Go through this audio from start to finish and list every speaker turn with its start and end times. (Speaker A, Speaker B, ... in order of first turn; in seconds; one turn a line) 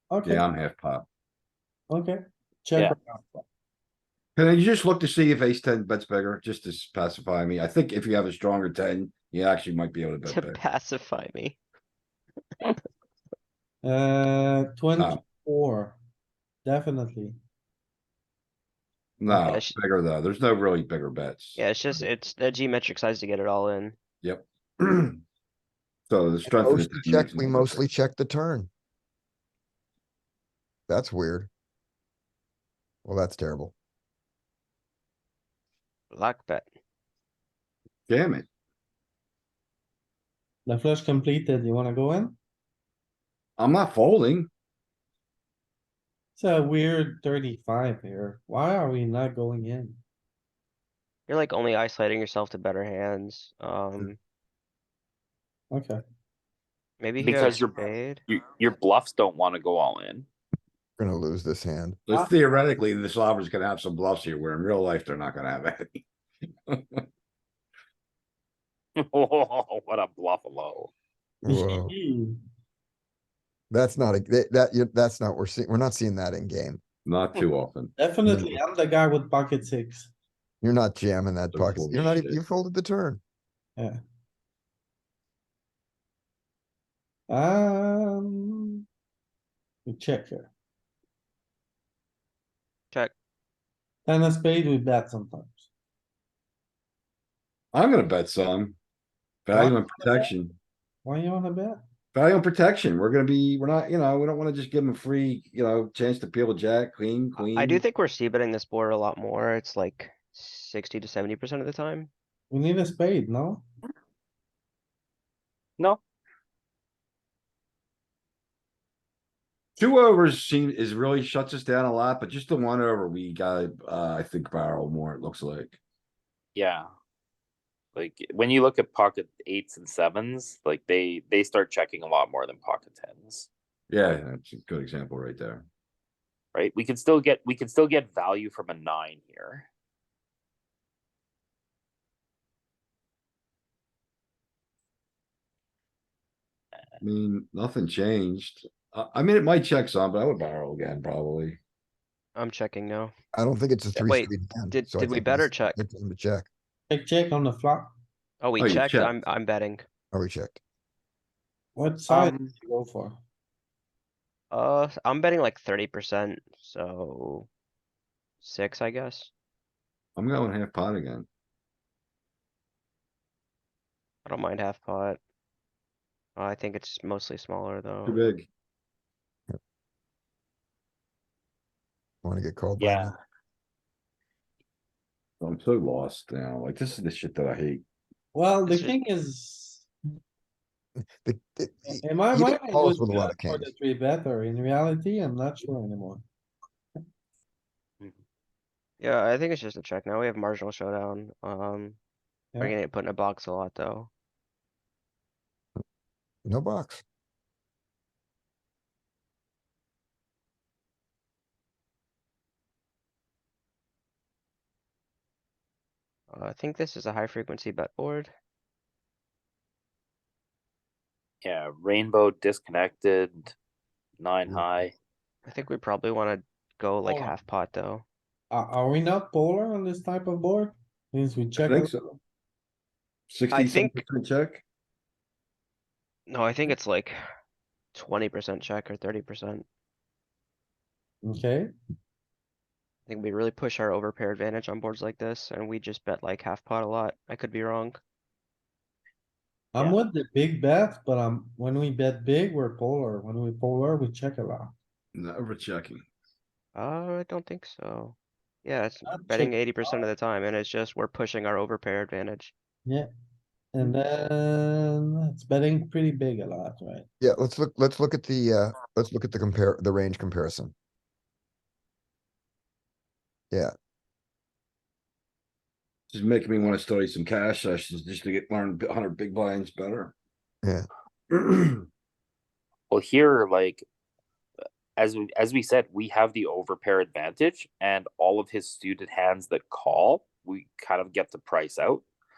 Speaker A: 0.1-0.4
Speaker B: 0.2-1.1
Speaker A: 1.9-3.5
Speaker B: 4.4-10.6
Speaker C: 10.2-11.6
Speaker A: 13.8-16.0
Speaker B: 15.0-15.2
Speaker A: 16.6-17.4
Speaker B: 19.2-21.6
Speaker C: 19.3-19.8
Speaker C: 21.6-23.9
Speaker B: 24.2-25.2
Speaker B: 26.1-27.8
Speaker D: 26.5-28.7
Speaker D: 30.9-31.5
Speaker D: 33.0-33.7
Speaker C: 36.1-36.6
Speaker B: 38.1-38.5
Speaker A: 40.7-42.4
Speaker B: 43.6-44.5
Speaker A: 46.4-50.0
Speaker C: 51.3-54.2
Speaker A: 55.7-56.0
Speaker C: 57.0-58.2
Speaker E: 57.2-60.3
Speaker D: 61.0-62.0
Speaker B: 62.1-66.0
Speaker B: 66.7-67.0
Speaker E: 69.0-70.9
Speaker D: 71.4-71.9
Speaker A: 71.5-72.4
Speaker D: 73.7-76.8
Speaker B: 77.0-77.9
Speaker A: 78.0-80.1
Speaker D: 78.2-78.6
Speaker D: 80.6-83.2
Speaker B: 81.5-82.4
Speaker A: 87.3-88.8
Speaker A: 89.9-90.5
Speaker A: 94.1-95.7
Speaker B: 97.7-98.8
Speaker B: 99.5-100.6
Speaker A: 101.0-101.8
Speaker B: 102.1-107.8
Speaker C: 107.4-112.1
Speaker A: 112.5-113.6
Speaker B: 119.8-125.8
Speaker E: 126.5-126.9
Speaker E: 128.0-133.5
Speaker B: 133.9-135.7
Speaker E: 136.5-139.7
Speaker B: 147.0-151.6
Speaker C: 152.3-153.1
Speaker D: 153.3-156.5
Speaker C: 153.9-155.8
Speaker A: 156.9-157.9
Speaker C: 158.4-159.8
Speaker B: 158.6-159.2
Speaker D: 160.1-160.6
Speaker A: 161.8-163.2
Speaker E: 162.1-162.5
Speaker C: 164.5-167.5
Speaker C: 168.4-169.3
Speaker B: 170.2-171.3
Speaker C: 174.2-175.2
Speaker C: 176.4-178.3
Speaker B: 178.1-178.5
Speaker D: 182.2-183.2
Speaker E: 182.8-183.1
Speaker B: 185.4-187.8
Speaker A: 188.3-189.9
Speaker C: 188.7-189.0
Speaker D: 191.0-193.7
Speaker A: 192.0-196.2
Speaker C: 199.0-202.0
Speaker C: 202.6-204.1
Speaker D: 206.4-207.0
Speaker C: 216.3-218.3
Speaker E: 221.4-223.5
Speaker E: 224.2-224.9
Speaker C: 225.5-228.1
Speaker A: 227.1-227.3
Speaker A: 228.5-231.6
Speaker B: 231.6-232.2
Speaker B: 233.3-234.6
Speaker C: 233.5-234.0
Speaker C: 236.3-237.2
Speaker C: 237.9-239.7
Speaker A: 241.2-241.7
Speaker C: 243.1-248.0
Speaker A: 249.8-254.7
Speaker B: 255.1-256.0
Speaker C: 256.8-262.5
Speaker A: 259.1-260.0
Speaker A: 263.7-267.1
Speaker D: 267.2-270.7
Speaker B: 276.1-280.1
Speaker B: 281.3-281.8
Speaker E: 282.9-283.9
Speaker E: 285.0-292.1